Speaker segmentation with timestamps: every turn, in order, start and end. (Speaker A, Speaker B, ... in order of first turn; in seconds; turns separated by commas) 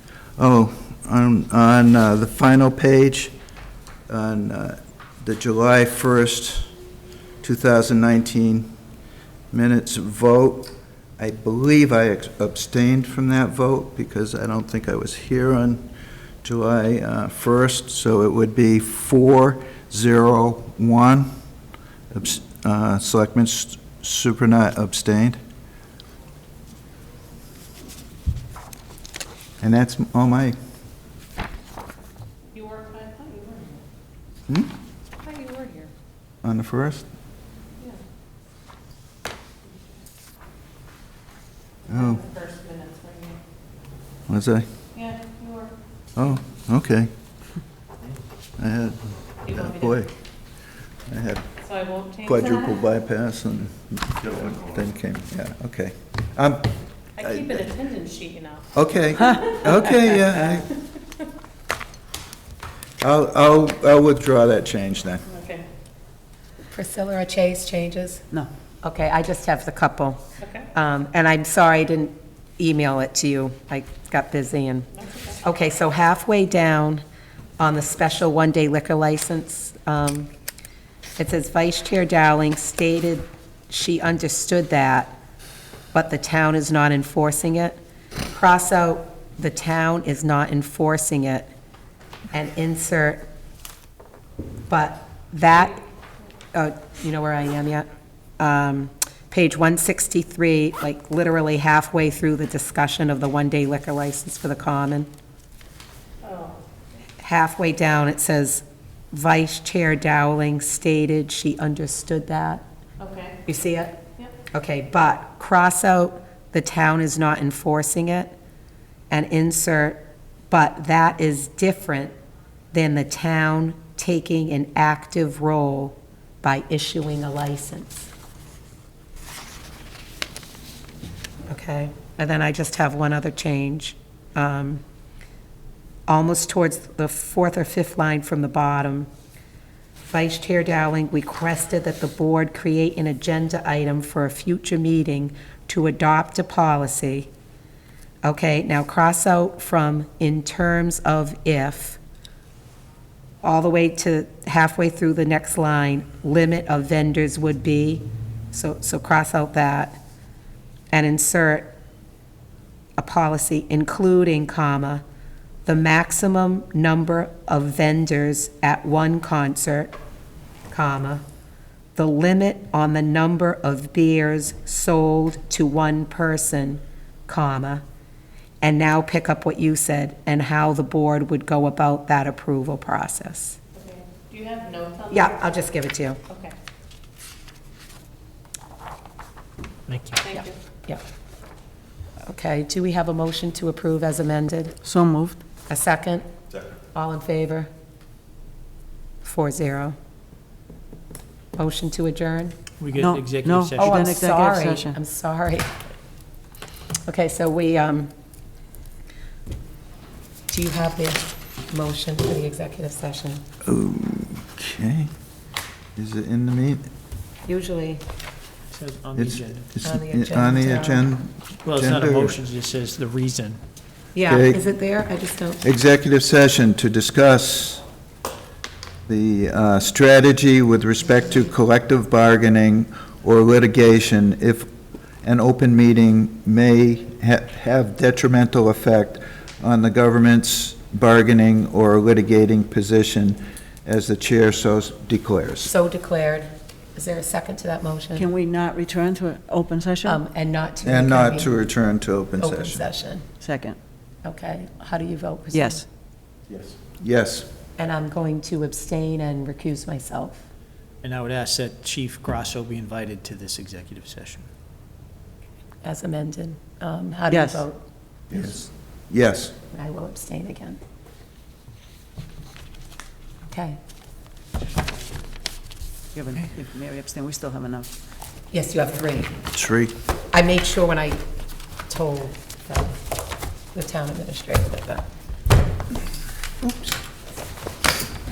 Speaker A: 0.4-3.3, Speaker A: 4.1-6.7, Speaker A: 7.4-8.7, Speaker A: 9.5-15.8, Speaker A: 16.4-21.3, Speaker A: 22.1-25.4, Speaker A: 29.6-30.6, Speaker B: 32.5-33.8, Speaker B: 35.2-35.9, Speaker A: 36.4-37.0, Speaker A: 41.9-42.3, Speaker B: 42.2-43.4, Speaker A: 44.3-44.6, Speaker B: 45.0-45.7, Speaker A: 46.1-47.1, Speaker A: 48.6-50.1, Speaker A: 51.1-51.5, Speaker B: 51.7-52.4, Speaker A: 52.2-57.8, Speaker B: 57.2-58.6, Speaker A: 58.7-60.7, Speaker A: 63.0-65.2, Speaker B: 65.3-65.6, Speaker C: 66.7-68.2, Speaker C: 68.8-74.9, Speaker C: 75.4-77.0, Speaker C: 77.6-80.3, Speaker C: 81.2-85.2, Speaker C: 85.9-87.8, Speaker C: 88.3-91.5, Speaker C: 92.3-93.2, Speaker C: 94.7-95.8, Speaker C: 96.5-97.9, Speaker C: 98.4-105.1, Speaker B: 106.2-106.6, Speaker C: 107.2-112.6, Speaker B: 113.0-113.4, Speaker C: 113.5-118.3, Speaker C: 119.1-122.1, Speaker C: 122.7-128.1, Speaker C: 131.5-134.8, Speaker C: 136.1-139.1, Speaker C: 140.1-147.3, Speaker C: 148.2-152.0, Speaker C: 153.4-160.0, Speaker C: 160.9-161.7, Speaker C: 163.0-165.0, Speaker C: 165.7-169.9, Speaker C: 170.7-171.2, Speaker C: 171.9-177.8, Speaker C: 178.6-183.6, Speaker B: 183.8-185.3, Speaker C: 185.1-186.2, Speaker B: 186.3-186.5, Speaker D: 189.9-190.2, Speaker B: 190.2-190.5, Speaker C: 190.3-191.0, Speaker C: 192.2-194.8, Speaker E: 194.8-195.4, Speaker C: 195.7-196.3, Speaker C: 196.9-197.7, Speaker C: 199.2-199.9, Speaker C: 201.6-202.6, Speaker D: 202.8-203.9, Speaker E: 202.9-205.0, Speaker C: 203.8-205.7, Speaker C: 207.1-208.1, Speaker C: 210.5-213.4, Speaker A: 213.6-215.1, Speaker A: 215.9-216.8, Speaker C: 217.4-218.0, Speaker D: 218.7-219.6, Speaker A: 219.2-222.4, Speaker C: 219.8-221.1, Speaker D: 221.6-223.6, Speaker C: 224.1-225.6, Speaker A: 224.2-224.6, Speaker A: 225.6-227.8, Speaker A: 229.1-234.7, Speaker A: 235.2-245.7, Speaker C: 245.6-248.3, Speaker E: 248.1-250.2, Speaker C: 250.0-251.7, Speaker A: 250.8-252.8, Speaker C: 252.4-253.2, Speaker E: 253.4-253.8, Speaker C: 254.2-255.9, Speaker E: 255.5-255.8, Speaker A: 256.6-257.5, Speaker C: 257.8-260.4, Speaker D: 261.0-264.5, Speaker C: 265.8-267.8, Speaker E: 267.3-267.6, Speaker A: 268.3-269.5, Speaker C: 269.7-270.8, Speaker C: 273.5-273.8, Speaker E: 276.1-277.9, Speaker C: 278.5-279.4, Speaker A: 279.5-279.9, Speaker C: 280.3-281.2, Speaker C: 281.9-282.9, Speaker C: 283.7-285.1, Speaker A: 286.6-287.0